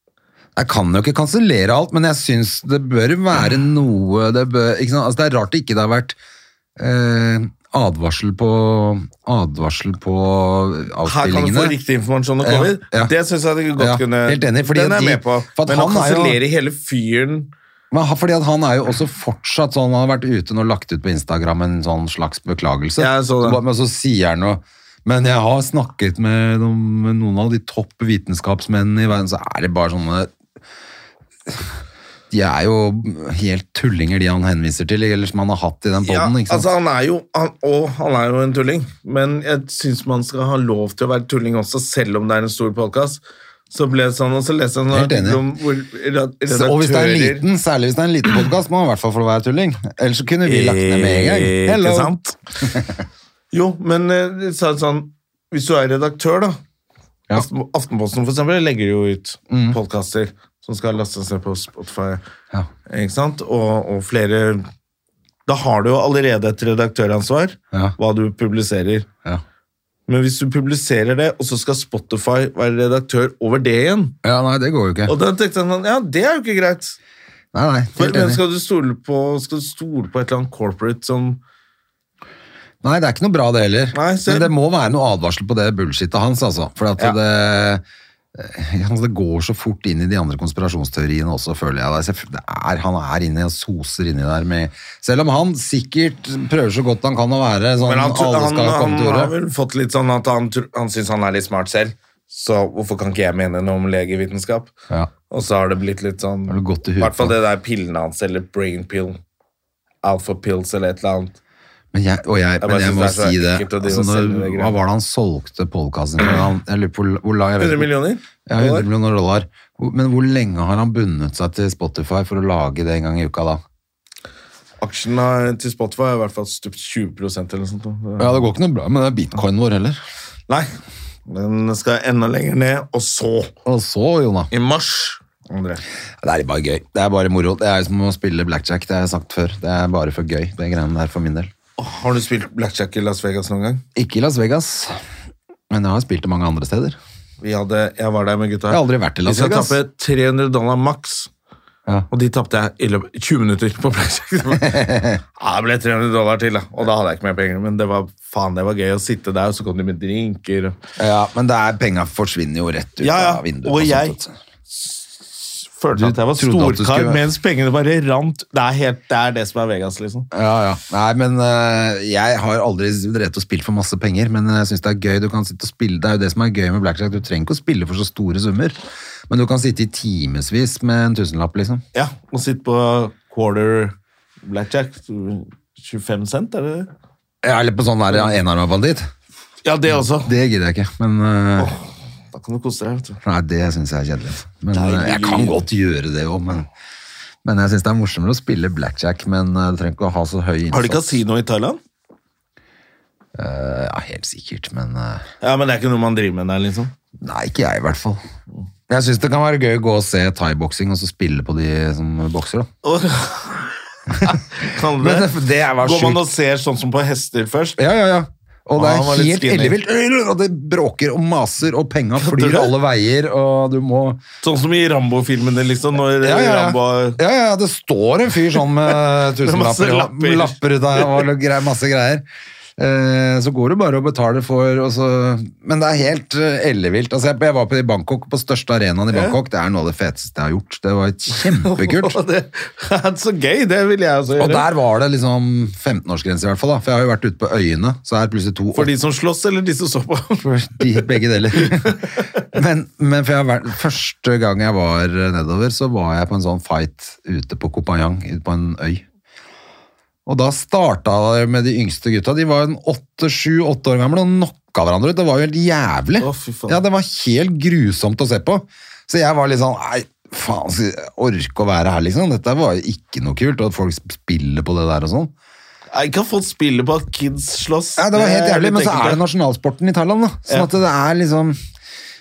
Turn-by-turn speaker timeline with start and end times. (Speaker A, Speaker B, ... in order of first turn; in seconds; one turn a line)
Speaker A: 0.6-6.2
Speaker A: 6.8-11.8
Speaker B: 11.0-17.5
Speaker A: 12.4-13.1
Speaker A: 13.8-16.4
Speaker A: 17.9-30.3
Speaker B: 23.0-23.6
Speaker A: 32.3-36.7
Speaker B: 36.0-47.5
Speaker A: 44.9-45.4
Speaker A: 46.5-52.9
Speaker B: 50.4-52.4
Speaker B: 53.5-56.6
Speaker B: 57.3-62.2
Speaker A: 59.5-59.8
Speaker B: 62.9-64.6
Speaker B: 65.5-69.1
Speaker B: 70.1-74.2
Speaker A: 74.2-75.1
Speaker B: 75.0-77.0
Speaker A: 77.5-78.4
Speaker B: 78.0-81.4
Speaker A: 82.8-87.8
Speaker B: 83.9-84.5
Speaker A: 88.3-99.3
Speaker B: 97.8-104.7
Speaker B: 105.3-109.2
Speaker A: 106.5-107.3
Speaker B: 110.0-111.4
Speaker A: 111.9-117.9
Speaker B: 112.6-114.8
Speaker B: 117.6-118.9
Speaker A: 118.5-123.6
Speaker B: 124.8-128.4
Speaker A: 128.2-130.0
Speaker B: 131.3-133.5
Speaker A: 133.6-134.5
Speaker B: 134.5-135.8
Speaker A: 136.2-141.5
Speaker B: 141.8-143.8
Speaker A: 143.9-145.0
Speaker A: 145.7-147.0
Speaker B: 147.4-151.3
Speaker A: 148.7-149.8
Speaker B: 152.1-154.8
Speaker A: 154.6-155.2
Speaker B: 155.4-160.8
Speaker A: 161.0-164.3
Speaker B: 163.0-170.3
Speaker A: 165.9-167.2
Speaker A: 170.3-178.8
Speaker A: 179.3-181.8
Speaker B: 181.9-186.9
Speaker A: 187.4-189.1
Speaker B: 189.6-190.3
Speaker A: 189.9-191.7
Speaker B: 191.6-193.2
Speaker A: 193.2-196.7
Speaker B: 194.7-195.6
Speaker A: 197.4-201.2
Speaker B: 200.7-201.8
Speaker A: 203.3-205.2
Speaker B: 205.4-206.9
Speaker A: 207.2-208.2
Speaker A: 208.9-212.7
Speaker B: 212.8-217.8
Speaker A: 214.9-216.3
Speaker A: 217.8-224.2
Speaker B: 218.8-219.8
Speaker B: 222.2-222.7
Speaker B: 224.4-227.2
Speaker A: 226.2-232.2
Speaker B: 229.4-231.2
Speaker A: 232.8-242.2
Speaker B: 239.1-239.4
Speaker B: 241.3-244.7
Speaker A: 244.4-248.9
Speaker B: 248.7-250.4
Speaker A: 250.4-259.0
Speaker B: 251.5-252.4
Speaker A: 260.2-275.3
Speaker B: 266.2-266.8
Speaker B: 275.9-279.2
Speaker A: 277.9-281.6